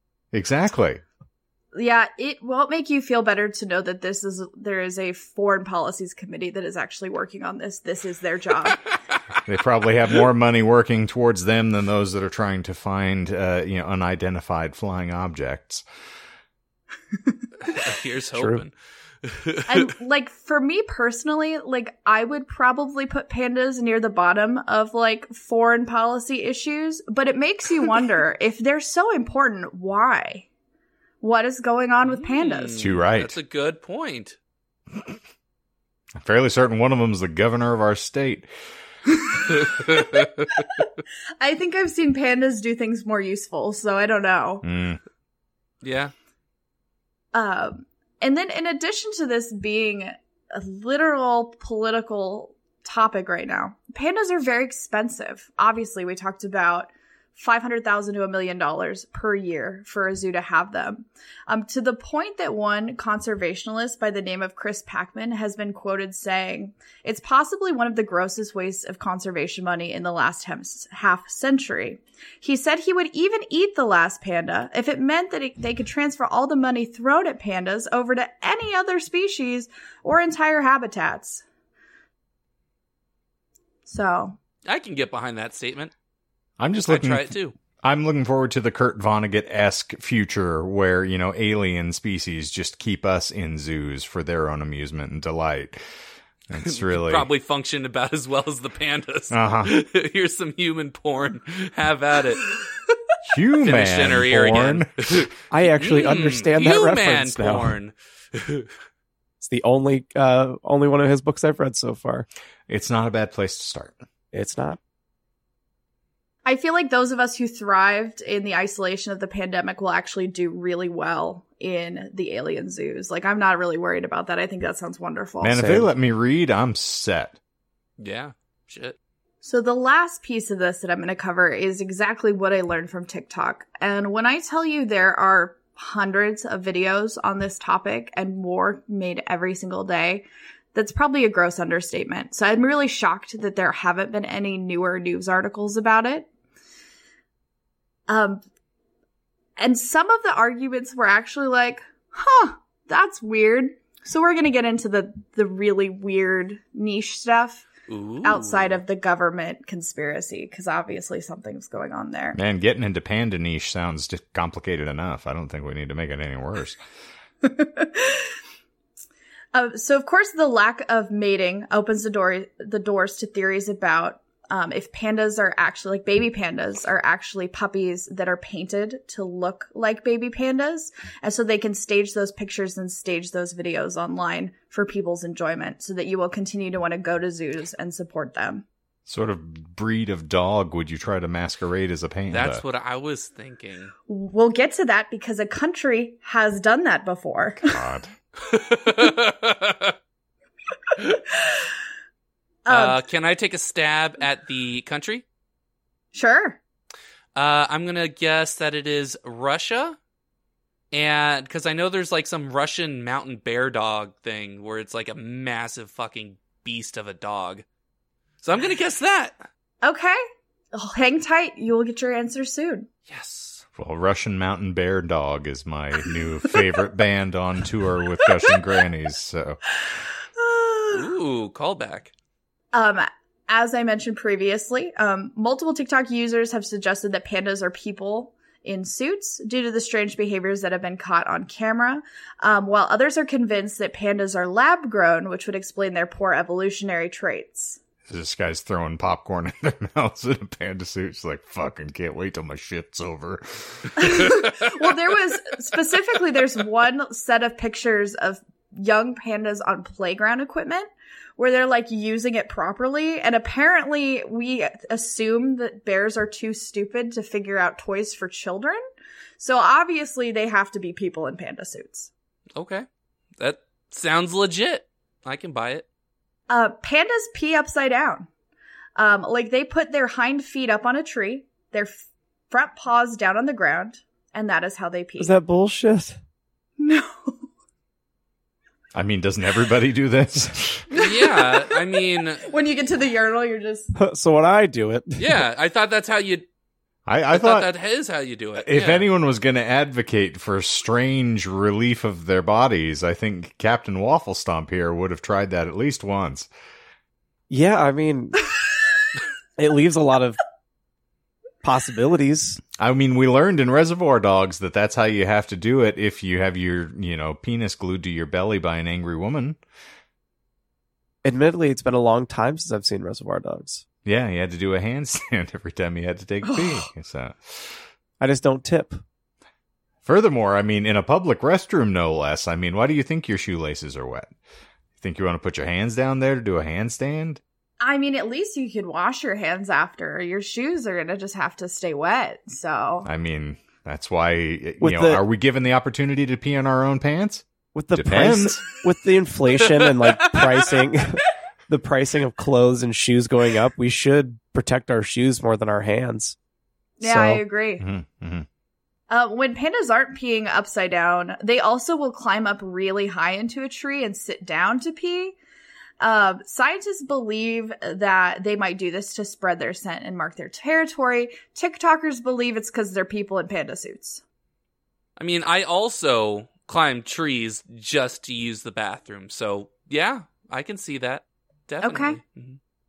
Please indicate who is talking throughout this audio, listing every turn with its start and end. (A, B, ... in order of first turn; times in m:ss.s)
0:00.3-0:01.0 A
0:01.7-0:08.9 B
0:09.4-0:15.8 A
0:17.6-0:18.7 C
0:18.4-0:18.6 D
0:19.2-0:19.8 C
0:19.7-0:30.5 B
0:31.2-0:32.9 B
0:32.0-0:34.4 C
0:32.8-0:33.4 A
0:36.2-0:38.5 A
0:39.2-0:40.2 B
0:39.7-0:40.3 C
0:41.4-0:44.6 B
0:44.6-0:45.0 A
0:45.8-0:46.1 C
0:47.3-1:21.4 B
1:23.8-1:24.4 B
1:24.6-1:25.9 C
1:26.6-1:35.8 A
1:26.9-1:27.5 C
1:36.5-1:37.3 A
1:36.6-1:42.6 C
1:39.3-1:39.7 A
1:43.2-1:45.3 A
1:43.6-1:48.7 C
1:45.5-1:47.7 D
1:49.4-1:52.3 D
1:52.7-1:54.0 A
1:54.3-1:54.8 D
1:56.4-2:05.6 B
2:05.4-2:07.4 A
2:05.5-2:05.9 D
2:08.0-2:09.0 C
2:09.4-2:26.3 B
2:28.1-2:28.4 B
2:29.6-2:37.7 B
2:37.9-2:38.8 C
2:38.2-2:42.4 B
2:42.3-2:46.8 A
2:47.4-2:48.3 B
2:49.5-3:08.6 B
3:09.1-3:12.6 A
3:12.3-3:13.9 C
3:14.1-3:17.8 B
3:17.6-3:18.1 A
3:18.4-3:19.9 C
3:22.6-3:23.0 B
3:22.7-3:25.2 C
3:26.1-3:26.6 B
3:27.3-3:30.0 C
3:30.9-3:37.6 C
3:38.4-3:39.4 C
3:39.8-3:40.2 B
3:40.7-3:42.9 B
3:43.1-3:43.6 C
3:43.8-3:49.6 A
3:50.4-3:51.1 B
3:50.9-3:52.1 C
3:52.7-4:07.8 B
4:08.1-4:14.1 A
4:14.0-4:28.8 B
4:29.4-4:32.1 B
4:32.6-4:32.8 C
4:33.4-4:35.8 C
4:36.5-4:38.3 B
4:39.0-4:45.3 B
4:45.2-4:46.2 D
4:46.8-4:47.4 B
4:48.9-4:50.9 A
4:50.9-4:53.9 B
4:50.9-4:52.5 C
4:53.9-4:55.4 D
4:55.2-4:56.4 C
4:57.0-4:57.7 A
4:57.3-4:59.1 C
4:58.6-5:06.5 A
5:07.5-5:08.4 D
5:09.6-5:10.4 D
5:11.6-5:12.6 D
5:12.8-5:19.6 A
5:21.2-5:23.8 D
5:24.0-5:27.7 A
5:28.2-5:29.0 D
5:30.0-5:34.3 A
5:35.0-5:37.4 A
5:37.8-5:43.1 B
5:43.0-5:48.6 A
5:44.8-5:45.2 D
5:47.7-5:56.4 D
5:49.8-5:50.2 C
5:57.0-5:57.8 B
5:57.0-5:57.4 D
5:57.8-5:58.4 A
5:59.1-6:05.4 B
6:06.0-6:14.2 B
6:15.2-6:22.6 C
6:21.8-6:22.2 B